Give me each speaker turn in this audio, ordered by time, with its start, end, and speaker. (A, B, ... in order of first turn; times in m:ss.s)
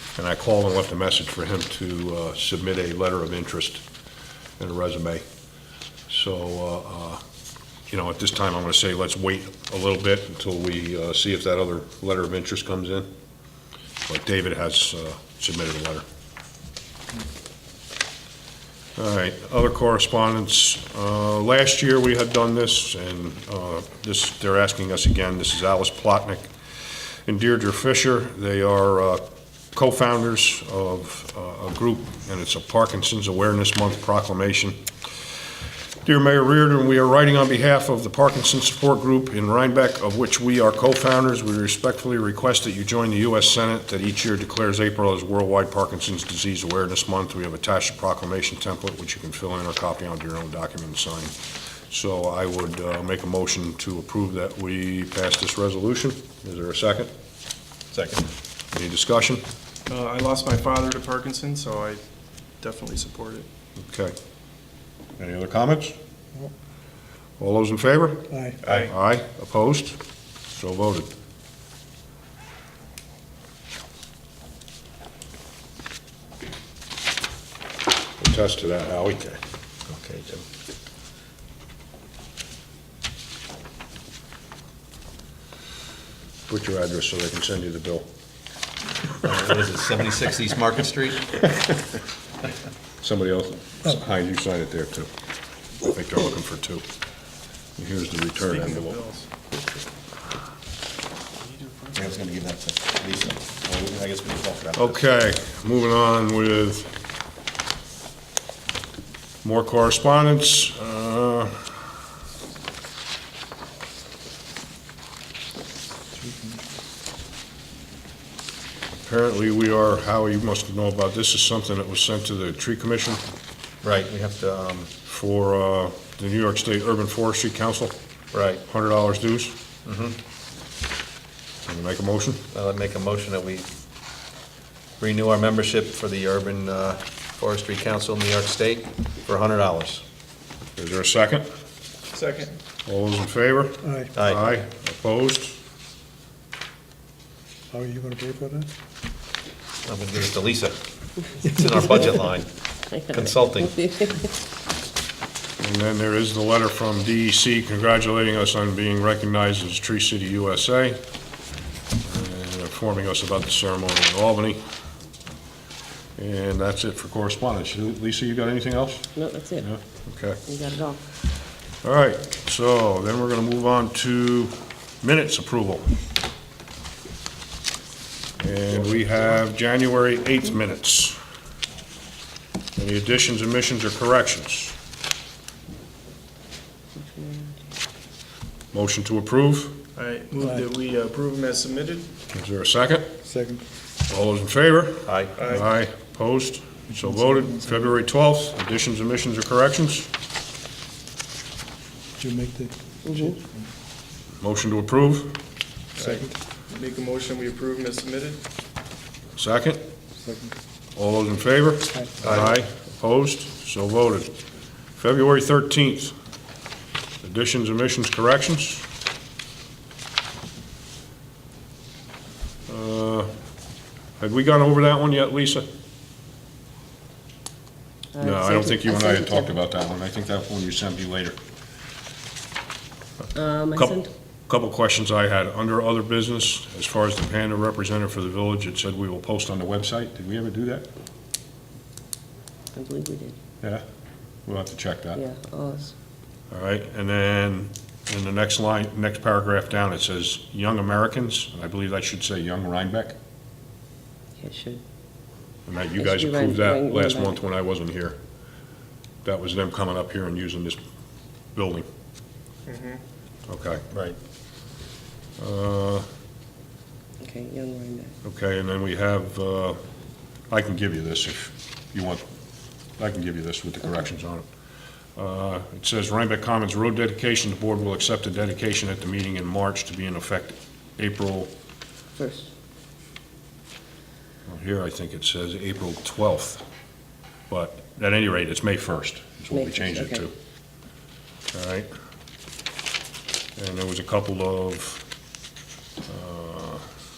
0:00.2-0:03.8 A
0:04.6-0:05.2 A
0:06.1-0:07.2 A
0:07.9-0:13.1 A
0:14.1-0:16.0 A
0:19.0-0:26.5 A
0:27.0-0:34.8 A
0:36.0-0:51.3 A
0:51.9-0:57.1 A
0:57.9-0:58.2 B
0:58.7-0:59.4 A
0:59.9-1:02.0 C
1:02.6-1:03.5 C
1:03.8-1:04.1 A
1:05.2-1:05.9 A
1:07.4-1:10.0 A
1:08.3-1:08.6 D
1:10.5-1:11.1 A
1:18.2-1:19.4 A
1:19.9-1:20.4 B
1:26.5-1:28.1 A
1:29.2-1:31.4 B
1:33.0-1:35.1 A
1:35.8-1:36.8 A
1:37.8-1:39.0 A
1:38.4-1:39.3 C
1:41.4-1:42.1 C
1:41.9-1:45.0 B
1:44.8-1:46.9 A
1:49.4-1:51.6 A
1:56.2-1:56.6 D
1:59.0-2:03.2 A
2:03.8-2:04.9 B
2:05.0-2:08.0 A
2:08.3-2:08.6 B
2:08.6-2:09.6 A
2:09.8-2:10.2 B
2:11.6-2:12.4 A
2:12.5-2:13.7 B
2:15.0-2:20.0 B
2:20.8-2:21.4 A
2:22.1-2:22.6 C
2:22.8-2:25.6 A
2:23.8-2:24.1 D
2:24.1-2:24.6 B
2:27.7-2:28.7 D
2:29.8-2:30.8 B
2:31.4-2:32.5 B
2:32.9-2:34.3 E
2:33.1-2:33.8 B
2:35.6-2:41.0 A
2:42.0-2:44.6 A
2:46.2-2:50.4 A
2:49.1-2:49.7 E
2:50.4-2:51.0 E
2:51.8-2:55.9 A
2:58.4-3:01.2 A
3:02.8-3:04.7 A
3:07.0-3:07.5 E
3:08.7-3:09.8 A
3:10.0-3:12.1 C
3:12.3-3:13.2 A
3:13.2-3:13.6 D
3:14.1-3:20.1 A
3:15.0-3:15.3 B
3:15.4-3:15.7 C
3:17.2-3:17.7 D
3:22.2-3:23.7 D
3:23.0-3:23.4 E
3:24.4-3:25.4 A
3:26.0-3:28.4 C
3:26.0-3:26.3 D
3:29.4-3:29.8 A
3:30.2-3:30.5 D
3:31.0-3:34.3 A
3:32.2-3:32.6 B
3:35.0-3:36.1 A
3:37.2-3:38.8 A
3:42.7-3:43.3 A
3:44.2-3:45.6 A
3:48.1-3:49.5 E
3:48.2-3:51.4 A
3:53.3-3:54.1 E
3:53.7-4:00.9 A
4:02.7-4:03.4 E
4:04.4-4:05.2 A
4:05.1-4:05.9 E
4:06.5-4:13.2 A
4:14.4-4:14.8 E
4:15.6-4:18.2 A
4:16.0-4:17.4 E
4:19.2-4:20.8 A
4:21.5-4:21.8 A
4:22.7-4:23.0 C
4:23.5-4:23.8 A
4:23.9-4:24.2 B
4:25.4-4:26.0 A
4:27.2-4:28.1 E
4:28.2-4:29.8 A
4:30.5-4:32.2 A
4:33.0-4:34.5 A
4:35.2-4:41.5 A
4:42.2-4:42.5 E
4:44.5-4:46.6 A
4:47.5-4:50.3 A
4:49.5-4:50.2 E
4:51.5-4:51.9 A
4:53.6-4:55.0 A
4:56.1-4:56.8 A